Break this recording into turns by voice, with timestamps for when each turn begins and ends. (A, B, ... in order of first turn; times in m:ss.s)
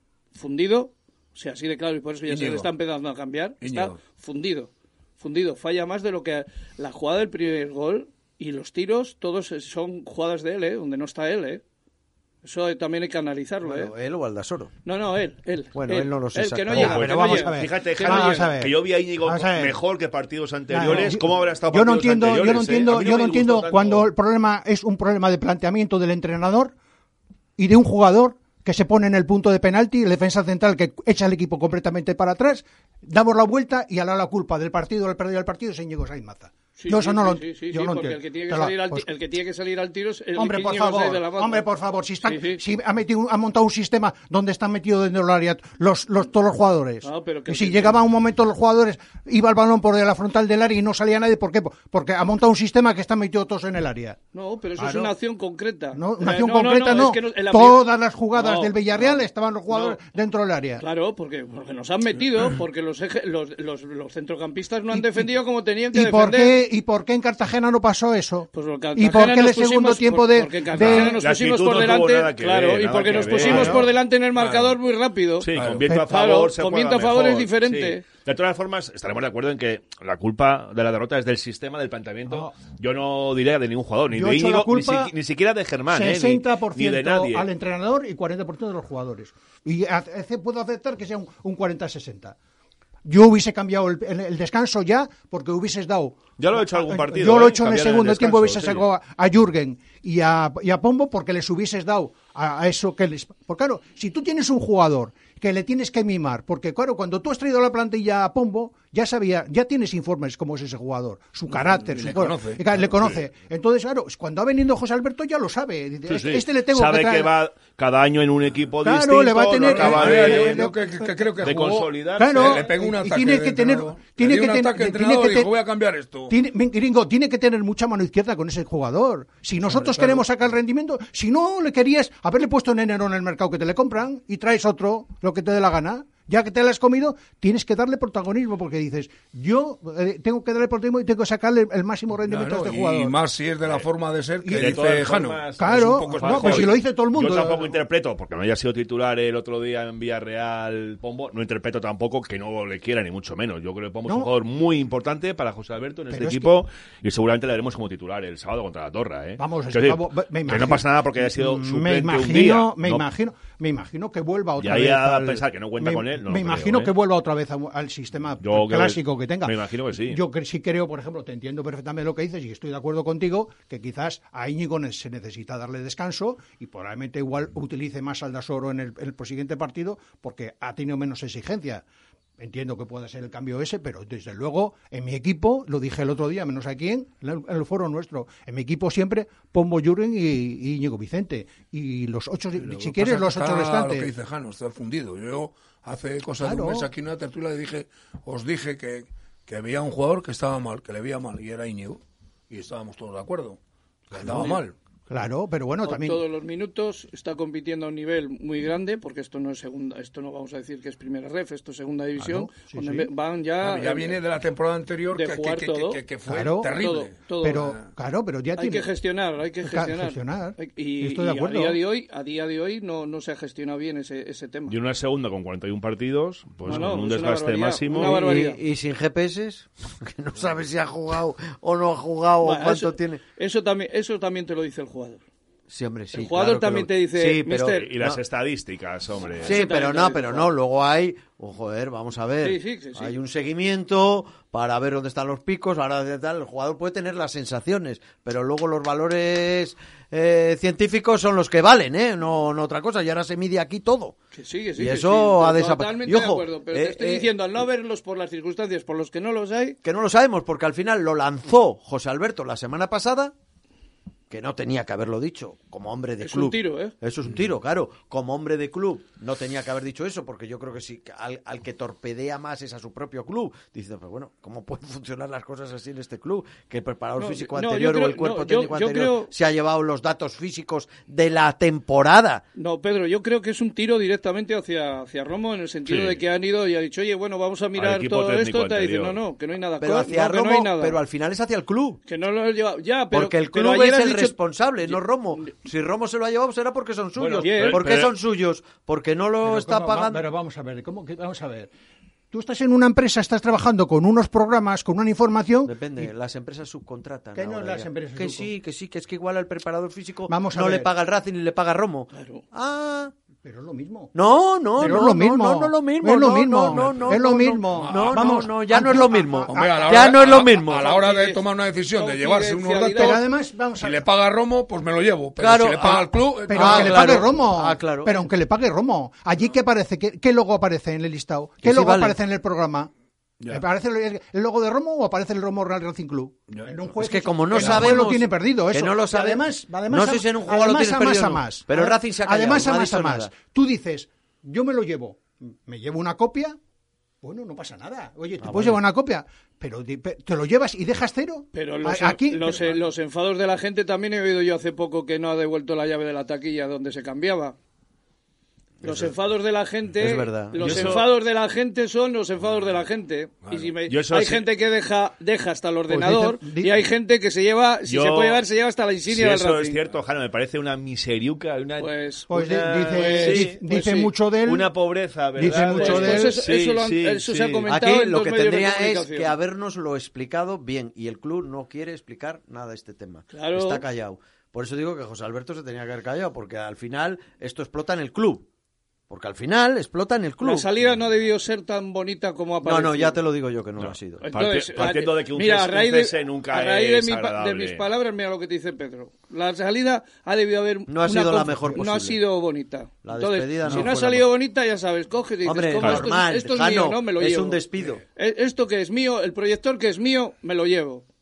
0:00.3-0:11.6 A
0:02.2-0:02.7 B
0:03.6-0:04.0 B
0:12.4-0:13.9 A
0:13.6-0:14.7 C
0:14.8-0:18.5 A
0:15.7-0:17.1 C
0:16.7-0:24.1 D
0:16.7-0:19.8 E
0:20.7-0:26.7 E
0:27.6-0:39.0 E
0:36.8-0:41.6 A
0:40.4-0:54.2 E
0:42.2-0:42.6 A
0:47.0-0:48.0 A
0:54.3-1:00.0 A
0:54.8-0:55.1 E
0:55.9-1:00.8 E
1:00.8-1:06.6 A
1:04.9-1:05.3 E
1:05.9-1:11.2 E
1:08.5-1:18.0 A
1:10.8-1:13.9 D
1:13.3-1:13.8 E
1:15.4-1:27.5 D
1:15.5-1:15.8 B
1:24.1-1:25.1 E
1:25.9-1:32.4 E
1:33.0-1:57.3 E
1:36.4-1:38.9 D
1:51.5-1:53.2 B
1:56.1-2:00.7 D
1:58.8-2:01.3 E
1:59.6-2:06.3 B
2:01.4-2:02.7 D
2:02.2-2:05.5 E
2:06.3-2:23.2 E
2:09.7-2:10.2 B
2:22.2-2:26.8 B
2:24.4-2:25.0 E
2:24.5-2:43.0 D
2:25.6-2:27.8 E
2:36.1-2:36.5 E
2:39.4-3:01.8 E
2:44.6-2:46.9 D
2:48.4-2:50.2 D
3:02.4-3:14.1 E
3:12.6-3:23.6 B
3:16.4-3:16.9 E
3:24.1-3:24.8 B
3:24.2-3:24.6 E
3:25.1-3:26.2 E
3:25.8-3:34.2 A
3:32.2-3:33.1 E
3:33.6-3:37.8 B
3:35.1-3:36.0 A
3:36.3-3:36.7 E
3:36.7-3:37.7 A
3:37.4-3:38.9 E
3:38.6-3:44.8 A
3:39.6-3:41.8 E
3:44.7-3:48.2 D
3:46.6-3:48.6 A
3:47.9-3:53.2 C
3:52.4-3:55.2 A
3:55.7-3:58.2 C
3:56.1-3:57.9 A
3:57.7-3:59.6 D
3:59.4-4:14.2 C
3:59.4-4:00.5 A
4:02.4-4:03.1 A
4:14.3-4:19.8 A
4:14.8-4:17.3 C
4:19.8-4:23.3 C
4:24.3-4:42.4 C
4:26.2-4:26.9 A
4:37.2-4:39.3 A
4:42.5-4:51.0 A
4:45.8-4:46.2 D
4:47.8-4:49.2 D
4:49.8-4:52.0 C
4:52.0-4:55.5 A
4:53.1-5:00.2 C
4:57.2-4:58.1 D
4:57.4-4:57.8 A
4:59.4-5:01.7 E
5:02.3-5:06.1 E
5:05.6-5:13.1 C
5:07.3-5:08.5 E
5:10.3-5:10.9 E
5:12.1-5:12.4 A
5:13.4-5:14.1 E
5:14.1-5:20.9 C
5:14.8-5:20.0 E
5:16.8-5:17.1 B
5:17.7-5:18.5 B
5:19.5-5:23.2 B
5:20.7-5:23.2 A
5:22.9-5:24.0 E
5:23.8-5:27.3 B
5:25.4-5:28.2 C
5:25.8-5:32.9 E
5:31.6-5:32.2 C
5:33.5-5:46.6 E
5:36.5-5:36.8 B
5:37.0-5:43.3 C
5:37.5-5:38.1 B
5:47.2-5:52.8 E
5:48.4-5:48.8 C
5:51.5-5:57.6 A
5:58.8-6:09.8 A
6:00.0-6:00.9 C
6:00.6-6:01.1 D
6:03.4-6:03.7 B
6:03.9-6:04.4 D
6:05.9-6:06.8 E
6:07.9-6:08.4 D
6:09.1-6:17.7 D
6:11.8-6:12.3 A
6:12.3-6:14.7 E
6:12.9-6:14.1 A
6:15.4-6:16.3 E
6:15.7-6:19.3 A
6:17.7-6:28.4 C
6:23.3-6:23.8 A
6:29.1-6:30.7 C
6:30.4-6:33.2 A
6:32.6-6:34.2 C
6:33.8-6:37.8 D
6:34.2-6:47.6 A
6:40.9-6:42.2 C
6:43.0-6:44.3 C
6:45.4-6:48.0 C
6:45.8-6:46.1 D
6:48.2-6:51.0 A